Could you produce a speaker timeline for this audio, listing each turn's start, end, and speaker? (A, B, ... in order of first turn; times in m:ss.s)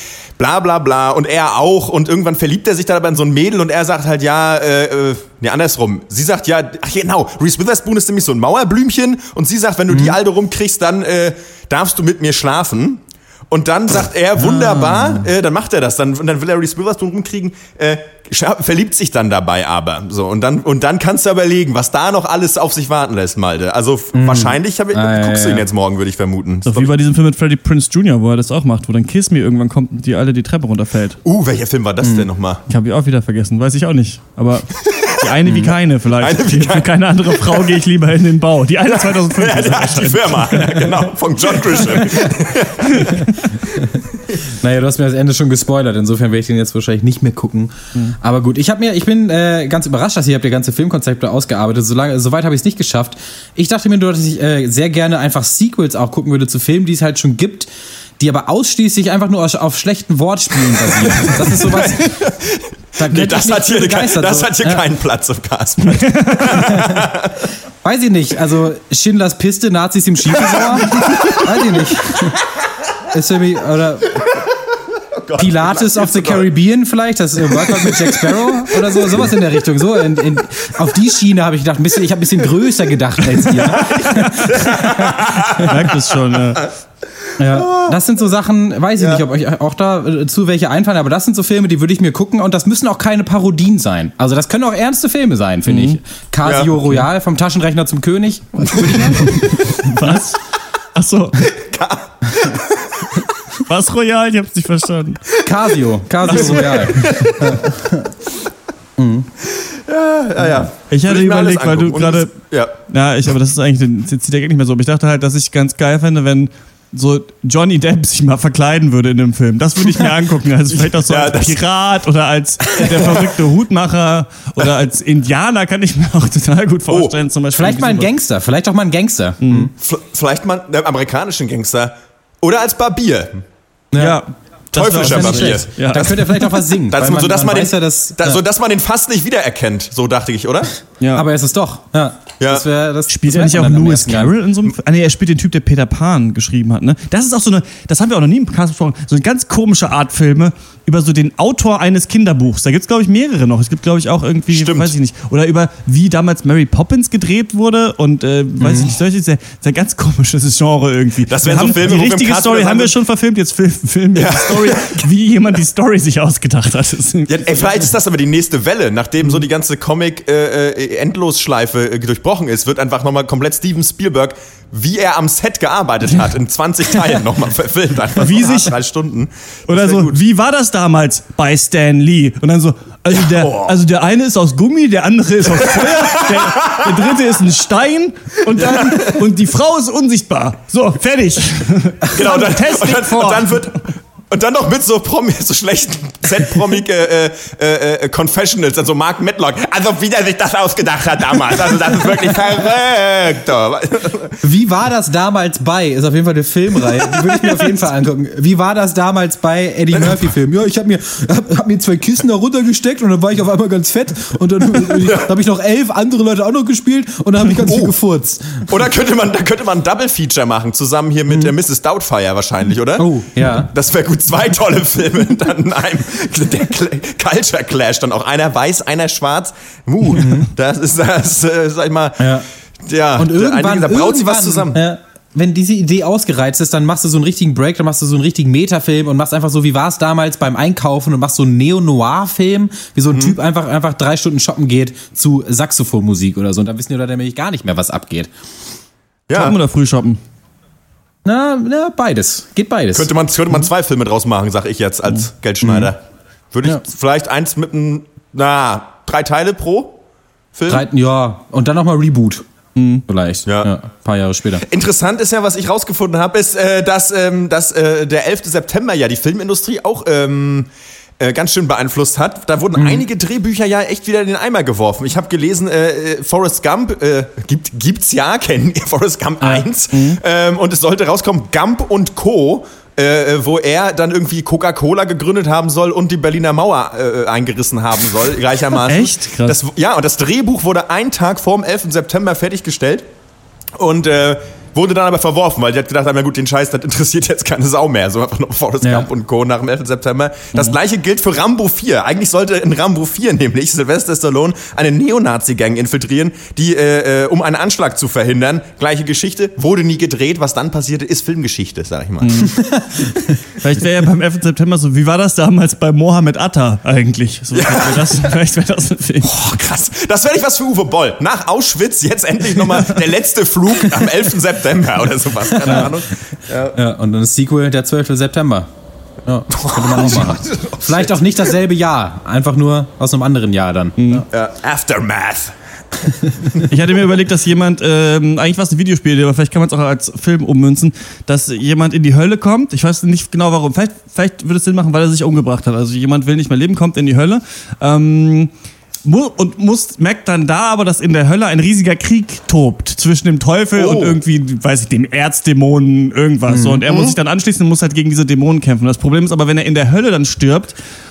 0:00.4-0:26.9 A
0:09.9-0:10.2 B
0:14.4-0:15.3 B
0:24.1-0:25.7 B
0:26.6-0:31.2 C
0:31.2-0:32.6 A
0:32.7-0:41.1 C
0:34.8-0:37.7 A
0:38.9-0:43.3 A
0:41.7-0:42.0 C
0:42.8-0:43.6 C
0:43.7-1:02.2 B
1:00.8-1:07.5 A
1:03.0-1:04.8 B
1:05.8-1:06.8 C
1:06.5-1:07.1 B
1:07.8-1:12.4 B
1:10.4-1:12.3 A
1:13.1-1:14.3 B
1:15.2-1:16.5 A
1:15.4-1:25.7 B
1:17.5-1:19.3 A
1:23.5-1:26.0 A
1:23.8-1:26.7 C
1:27.4-1:40.1 B
1:27.4-1:28.0 A
1:35.7-1:36.0 C
1:36.4-1:36.7 A
1:38.6-1:39.2 A
1:39.2-1:40.4 C
1:40.9-1:41.5 C
1:41.5-1:43.3 A
1:43.6-1:45.2 C
1:45.4-1:48.2 B
1:46.2-1:47.1 C
1:46.2-1:47.6 A
1:49.0-1:49.3 B
1:49.5-1:52.8 A
1:50.8-1:52.3 C
1:52.9-2:08.1 C
2:00.9-2:01.6 A
2:02.8-2:03.3 A
2:06.9-2:07.2 A
2:07.5-2:09.7 B
2:09.4-2:09.7 C
2:09.8-2:13.4 A
2:13.9-2:14.2 B
2:14.0-2:16.5 C
2:14.7-2:20.7 A
2:15.0-2:18.4 B
2:21.0-2:21.3 C
2:21.1-2:24.4 B
2:22.4-2:22.7 A
2:23.1-2:47.9 C
2:34.5-2:34.9 A
2:38.6-2:38.9 B
2:41.3-2:42.9 A
2:44.1-2:45.1 A
2:47.3-3:00.2 A
2:58.2-2:58.7 C
2:59.7-3:13.6 C
3:03.1-3:03.7 A
3:05.6-3:07.1 A
3:08.5-3:09.2 A
3:12.1-3:24.4 A
3:24.4-3:38.7 B
3:26.9-3:27.6 A
3:29.9-3:30.3 A
3:34.9-3:35.3 A
3:37.6-3:38.0 A
3:38.7-3:54.8 A
3:43.0-3:43.7 B
3:50.1-3:50.5 B
3:52.2-3:52.4 B
3:53.2-4:08.3 B
4:09.3-4:09.6 A
4:09.3-4:10.2 C
4:11.2-4:13.1 B
4:12.9-4:16.0 A
4:15.6-4:15.9 B
4:16.5-4:20.0 A
4:20.5-4:20.8 A
4:20.7-4:22.4 B
4:22.8-4:23.0 C
4:23.1-4:24.6 B
4:23.5-4:23.7 A
4:24.6-4:30.7 A
4:31.2-4:53.0 A
4:32.8-4:33.0 B
4:39.9-4:40.2 C
4:48.8-4:49.6 C
4:53.8-5:12.5 A
4:58.8-4:59.1 B
5:12.2-5:12.6 C
5:12.5-5:13.1 B
5:13.5-5:19.3 C
5:17.5-5:18.3 A
5:19.2-5:26.8 A
5:25.6-5:25.9 B
5:26.7-5:28.7 B
5:29.2-5:34.2 B
5:29.5-5:31.5 A
5:34.0-5:34.2 C
5:34.3-5:35.5 A
5:36.6-5:48.5 C
5:49.0-6:00.7 C
5:53.8-5:54.2 A
5:56.5-5:56.8 B